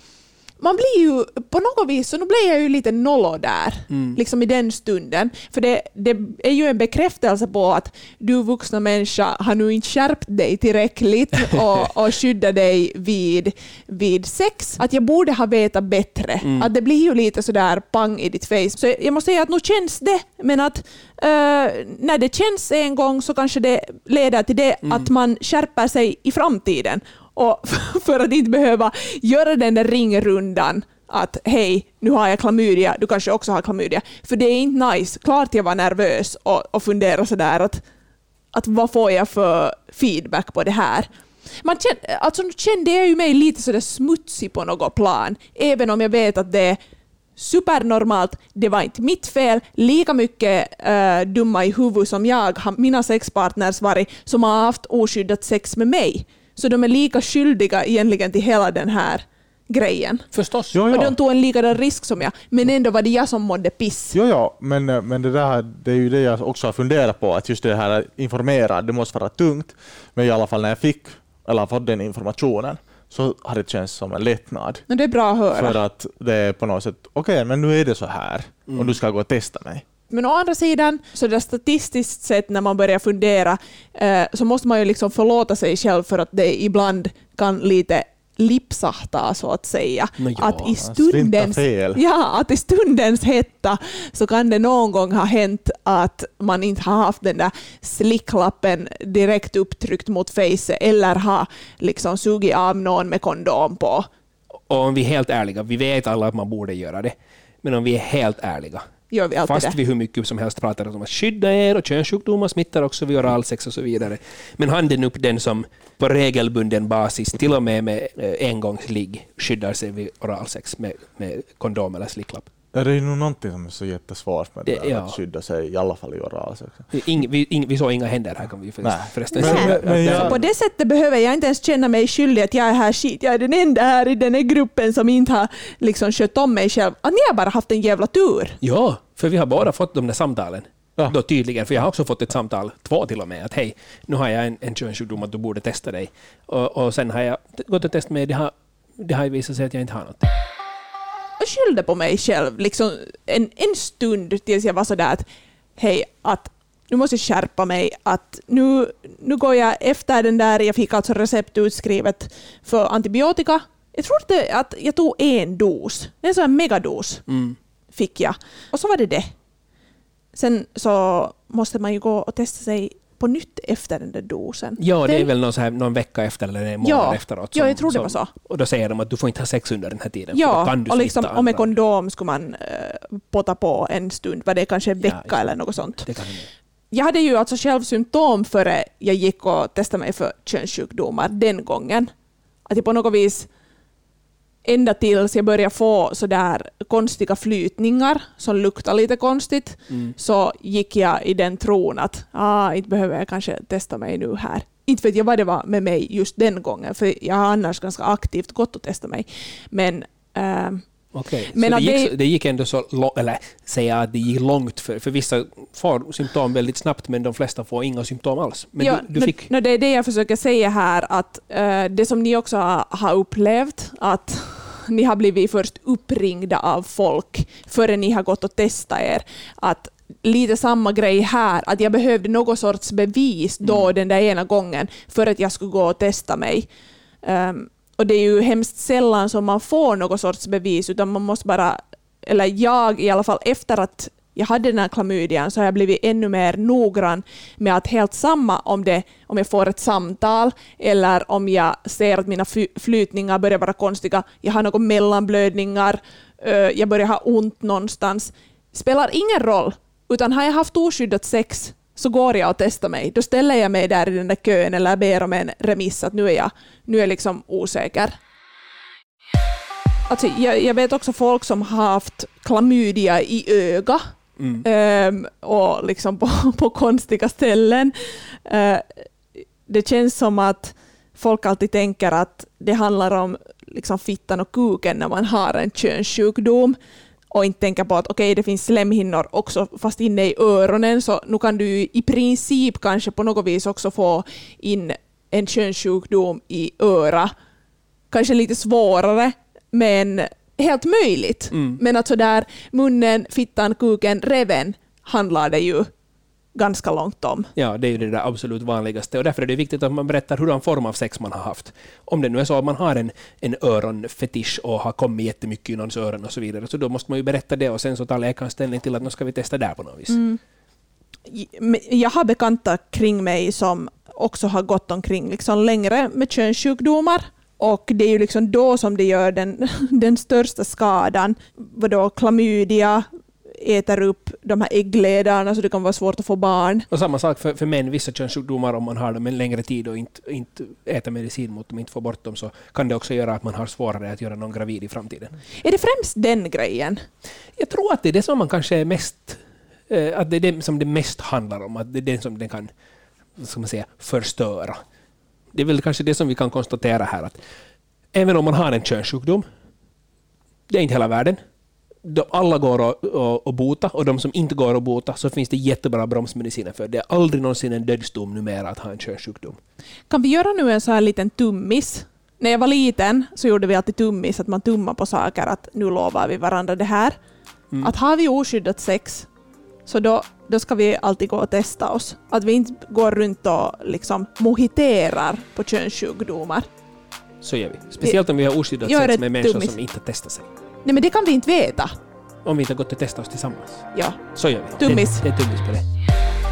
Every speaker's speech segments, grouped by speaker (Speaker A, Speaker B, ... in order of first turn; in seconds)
Speaker A: 0.6-37.8, 38.5-41.1, 41.6-46.8, 47.4-60.2, 60.9-64.2, 74.9-75.8, 80.1-104.1, 109.1-109.8, 129.3-138.6, 151.4-155.2, 155.8-167.2, 167.9-169.2, 170.3-175.3, 176.8-178.3, 180.3-186.1, 186.9-192.1, 192.7-193.5, 194.6-210.9, 211.5-212.1, 218.8-236.7, 237.2-268.1, 270.1-274.0, 274.6-277.9, 278.4-279.0, 279.7-286.8, 287.3-297.3, 298.1-305.9, 306.5-307.5, 320.1-320.4, 321.3-336.9, 345.6-347.0, 370.1-377.2, 377.8-379.3, 379.9-386.6, 388.8-389.7, 390.8-391.9, 393.9-394.2, 394.8-395.2
Speaker B: 3.9-4.2, 16.4-16.7, 24.8-25.1, 60.3-60.9, 90.2-90.8, 104.7-108.9, 109.4-122.5, 124.7-125.2, 126.9-130.4, 138.6-150.3, 167.3-167.6, 174.8-181.7, 185.0-185.5, 186.0-186.5, 211.1-219.5, 274.4-274.6, 301.5-301.8, 307.6-320.2, 336.9-345.4, 347.6-352.7, 353.4-354.8, 355.5-357.4, 358.1-359.4, 360.7-361.4, 362.0-369.6, 387.4-390.5, 392.4-395.8
Speaker C: 60.7-61.1, 64.1-74.8, 75.5-79.8, 90.8-92.0, 122.7-126.9, 128.8-130.4